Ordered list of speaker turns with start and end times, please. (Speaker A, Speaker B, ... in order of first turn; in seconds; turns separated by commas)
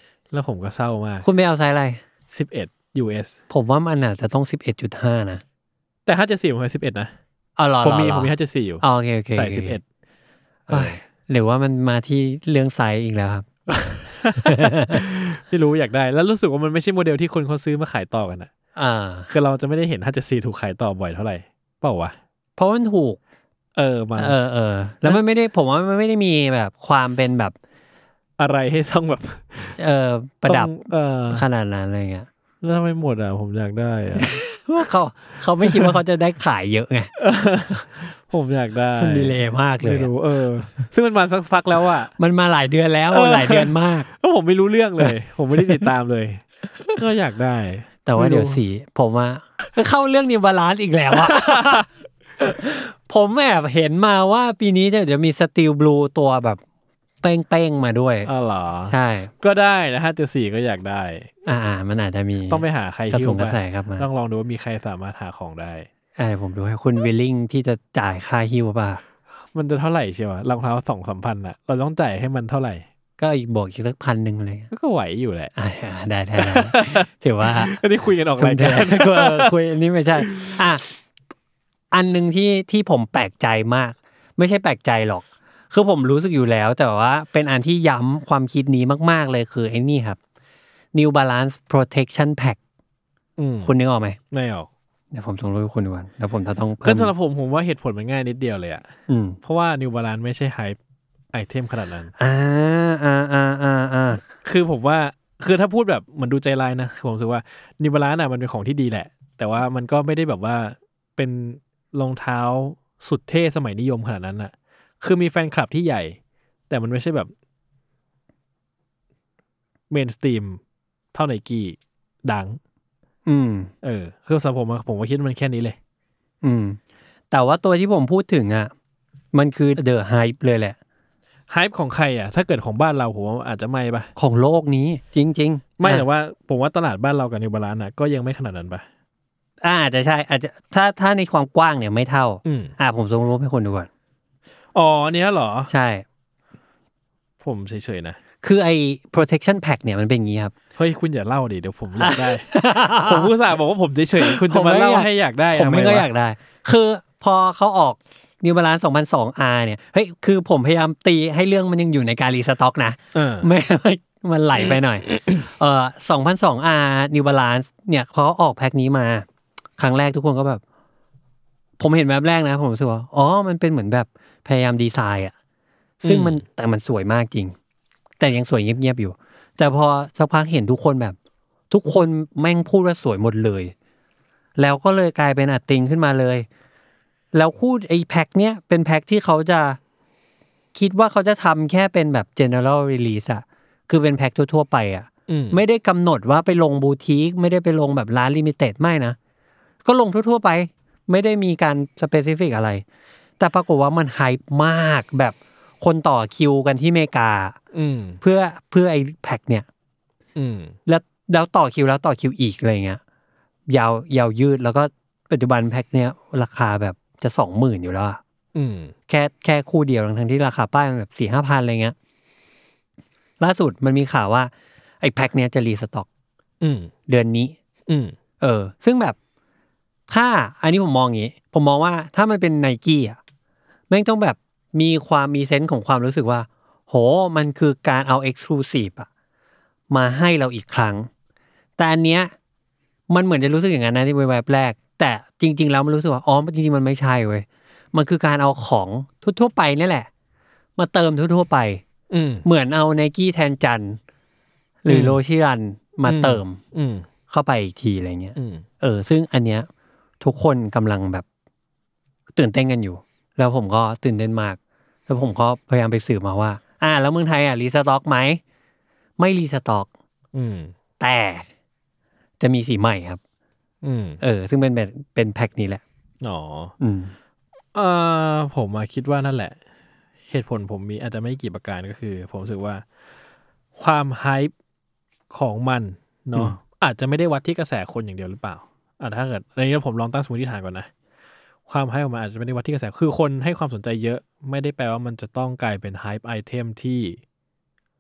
Speaker A: 0.3-1.3, Speaker B: 1.2-2.0, Speaker A: 2.3-3.4, Speaker B: 3.5-5.4, Speaker A: 6.1-7.1, Speaker B: 7.6-9.8, Speaker A: 7.8-9.8, Speaker A: 10.7-11.0, Speaker B: 10.7-13.5, Speaker A: 13.7-18.5, Speaker B: 14.4-15.0, Speaker B: 18.8-19.3, Speaker A: 19.3-22.2, Speaker B: 22.6-23.2, Speaker A: 23.8-24.4, Speaker B: 24.2-27.6, Speaker A: 28.4-29.8, Speaker B: 29.8-32.3, Speaker A: 30.5-31.4, Speaker A: 32.6-34.4, Speaker B: 34.2-37.1, Speaker A: 35.6-35.9, Speaker A: 37.2-42.1, Speaker B: 39.0-40.1, Speaker B: 42.2-44.1, Speaker A: 43.1-48.6, Speaker B: 45.0-45.9, Speaker B: 48.0-51.9, Speaker A: 51.2-51.9, Speaker B: 52.4-56.6, Speaker B: 57.2-58.3, Speaker A: 58.2-61.3, Speaker B: 58.9-59.3, Speaker B: 61.5-64.0, Speaker A: 62.5-65.9, Speaker B: 66.2-69.0, Speaker A: 69.5-72.8, Speaker B: 73.2-74.7, Speaker A: 74.7-75.5, Speaker B: 75.6-77.8, Speaker A: 76.4-79.5, Speaker B: 78.4-80.8, Speaker A: 80.2-80.6, Speaker B: 81.9-90.2, Speaker B: 90.9-92.6, Speaker A: 93.4-93.7, Speaker B: 93.7-94.2, Speaker A: 94.3-94.7, Speaker B: 95.1-97.1, Speaker A: 96.8-98.9, Speaker B: 99.1-99.4, Speaker A: 99.4-100.8, Speaker A: 101.3-102.1, Speaker B: 102.2-104.2, Speaker A: 104.4-116.2, Speaker A: 116.7-117.3, Speaker A: 119.9-120.6, Speaker A: 121.1-122.6, Speaker B: 123.3-123.7, Speaker A: 123.8-125.8, Speaker B: 126.4-126.8, Speaker B: 127.3-128.7, Speaker B: 129.3-130.8, Speaker A: 131.5-134.1, Speaker B: 134.2-136.1, Speaker A: 135.8-138.8, Speaker B: 139.6-143.9, Speaker A: 142.4-142.7, Speaker A: 144.7-145.7, Speaker B: 145.7-146.1, Speaker A: 147.4-148.2, Speaker B: 148.4-150.5, Speaker A: 150.8-156.1, Speaker B: 152.0-153.3, Speaker B: 154.2-169.3, Speaker A: 163.1-163.5, Speaker A: 165.1-165.4, Speaker B: 169.8-170.6, Speaker B: 171.8-175.3, Speaker A: 176.0-176.4, Speaker B: 176.0-177.6, Speaker B: 178.2-181.2, Speaker B: 181.7-183.7, Speaker B: 184.6-186.5, Speaker B: 187.3-189.8, Speaker B: 190.7-199.2, Speaker A: 195.3-195.6, Speaker B: 199.8-202.8, Speaker B: 203.4-207.6, Speaker A: 207.7-208.2, Speaker B: 208.2-209.7, Speaker A: 210.4-210.8, Speaker B: 210.9-213.0, Speaker B: 213.7-218.2, Speaker A: 218.6-218.9, Speaker B: 219.1-221.9, Speaker B: 223.4-226.1, Speaker A: 226.6-226.9, Speaker B: 227.1-227.6, Speaker A: 227.9-228.2, Speaker B: 228.4-229.2, Speaker B: 230.1-233.2, Speaker B: 233.9-239.1, Speaker B: 239.9-241.1, Speaker B: 241.8-242.3, Speaker B: 243.1-250.1, Speaker B: 250.8-251.8, Speaker A: 252.1-252.4, Speaker B: 252.4-254.0, Speaker B: 254.8-256.6, Speaker A: 254.9-255.2, Speaker A: 256.1-257.1, Speaker B: 257.3-259.7, Speaker A: 258.4-258.6, Speaker B: 260.2-261.2, Speaker B: 262.3-268.4, Speaker B: 269.2-269.9, Speaker A: 270.3-270.7, Speaker B: 271.0-271.5, Speaker B: 272.4-273.2, Speaker A: 273.8-274.2, Speaker B: 274.2-275.8, Speaker A: 276.2-276.7, Speaker B: 276.8-277.1, Speaker A: 277.8-279.6, Speaker A: 280.3-282.8, Speaker A: 283.8-284.5, Speaker A: 285.3-290.9, Speaker A: 291.7-297.2